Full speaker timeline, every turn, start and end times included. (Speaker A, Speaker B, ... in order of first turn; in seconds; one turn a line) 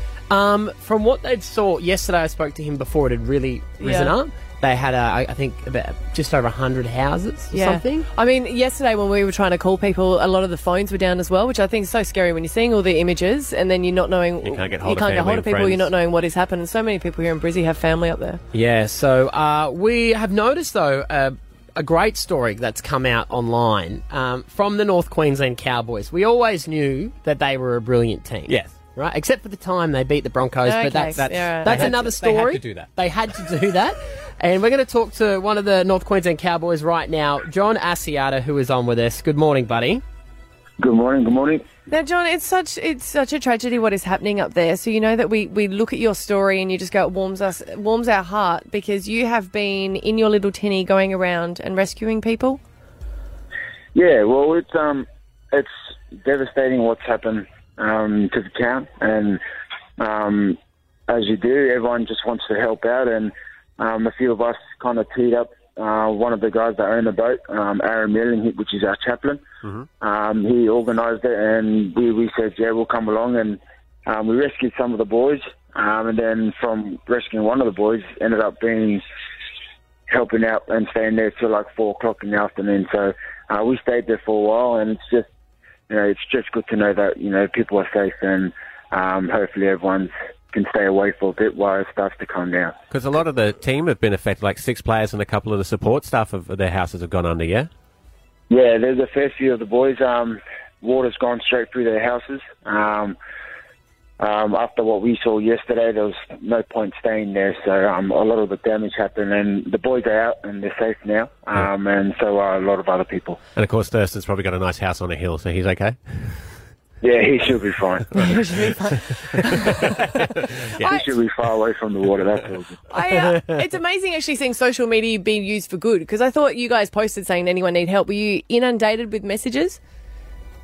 Speaker A: 0.3-8.1
Speaker B: 3.8-4.1
Speaker B: 7.5-18.4
Speaker C: 14.4-15.9
Speaker A: 18.5-40.0
Speaker C: 28.5-28.7
Speaker B: 30.6-32.0
Speaker C: 31.1-32.9
Speaker D: 40.8-41.6
Speaker B: 41.9-52.6
Speaker D: 53.9-59.4
Speaker D: 60.0-69.4
Speaker D: 70.0-79.0
Speaker D: 80.1-85.3
Speaker D: 85.9-92.8
Speaker C: 92.9-97.7
Speaker D: 98.5-103.2
Speaker D: 104.2-113.4
Speaker C: 113.5-116.5
Speaker D: 117.0-118.2
Speaker B: 118.1-121.1
Speaker C: 119.7-121.0
Speaker D: 120.9-122.7
Speaker B: 122.9-129.8